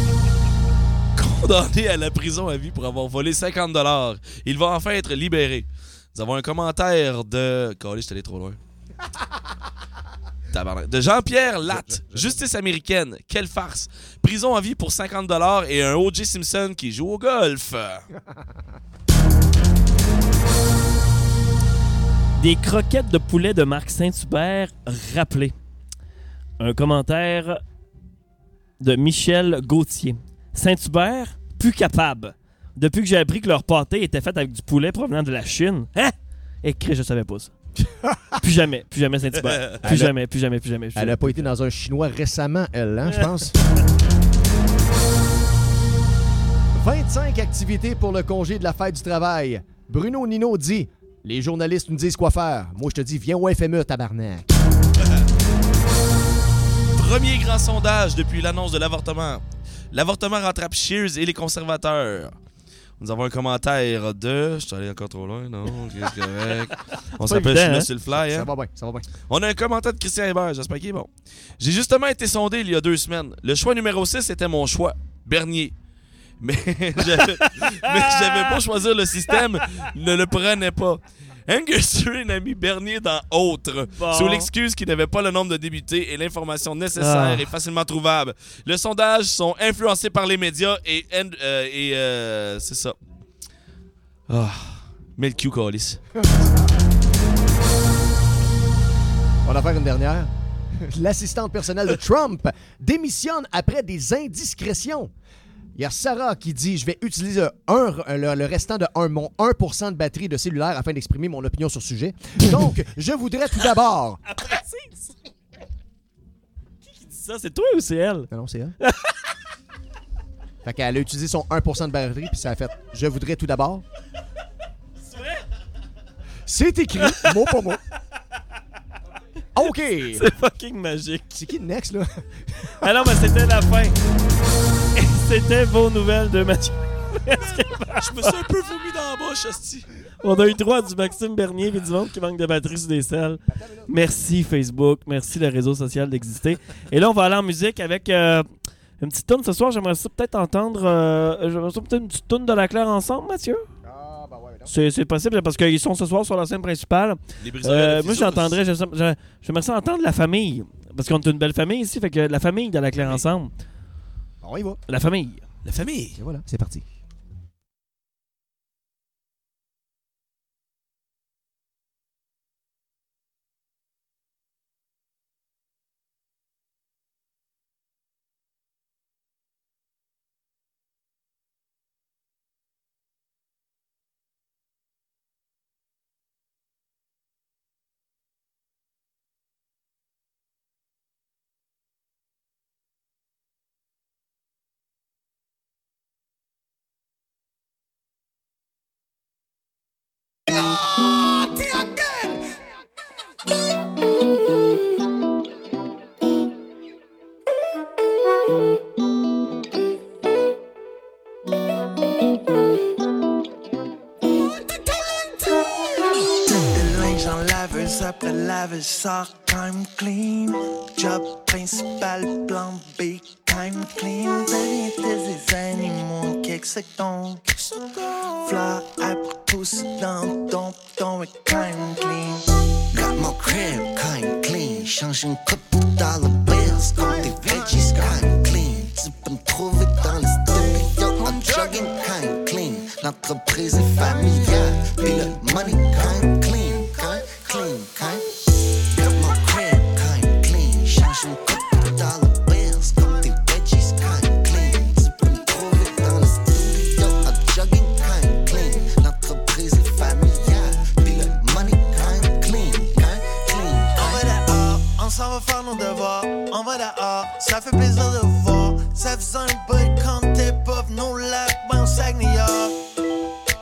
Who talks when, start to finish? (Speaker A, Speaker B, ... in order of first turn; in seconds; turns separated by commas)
Speaker A: 1.2-8.6, Speaker A: 10.5-18.1, Speaker B: 11.7-12.4, Speaker B: 18.1-18.6, Speaker C: 22.4-25.5, Speaker C: 26.6-27.6, Speaker C: 28.8-37.5, Speaker C: 38.4-41.5, Speaker B: 39.8-40.1, Speaker B: 41.0-43.5, Speaker B: 46.7-54.5, Speaker A: 57.0-62.4, Speaker A: 63.0-68.5, Speaker C: 67.2-67.9, Speaker B: 68.1-69.1, Speaker A: 69.3-75.7, Speaker A: 76.4-93.0, Speaker C: 77.9-78.6, Speaker C: 84.0-84.5, Speaker C: 87.0-87.5, Speaker A: 94.3-96.0, Speaker B: 96.2-96.6, Speaker B: 99.4-105.1, Speaker B: 105.8-114.2, Speaker C: 114.3-115.1, Speaker C: 116.9-118.3, Speaker B: 118.3-118.8, Speaker B: 120.6-123.8, Speaker B: 126.5-127.8, Speaker B: 129.6-130.2, Speaker C: 130.2-131.3, Speaker B: 131.3-132.3, Speaker C: 132.8-134.0, Speaker C: 135.0-138.1, Speaker A: 137.3-139.9, Speaker C: 140.2-148.5, Speaker B: 143.5-143.9, Speaker C: 149.0-153.7, Speaker B: 153.8-154.7, Speaker C: 154.7-163.5, Speaker A: 157.4-158.6, Speaker A: 163.0-163.2, Speaker B: 164.4-164.8, Speaker C: 164.9-165.4, Speaker A: 165.7-166.2, Speaker B: 166.2-166.8, Speaker D: 216.1-227.7, Speaker D: 228.3-232.4, Speaker E: 232.9-248.3, Speaker E: 248.9-264.2, Speaker D: 264.0-272.8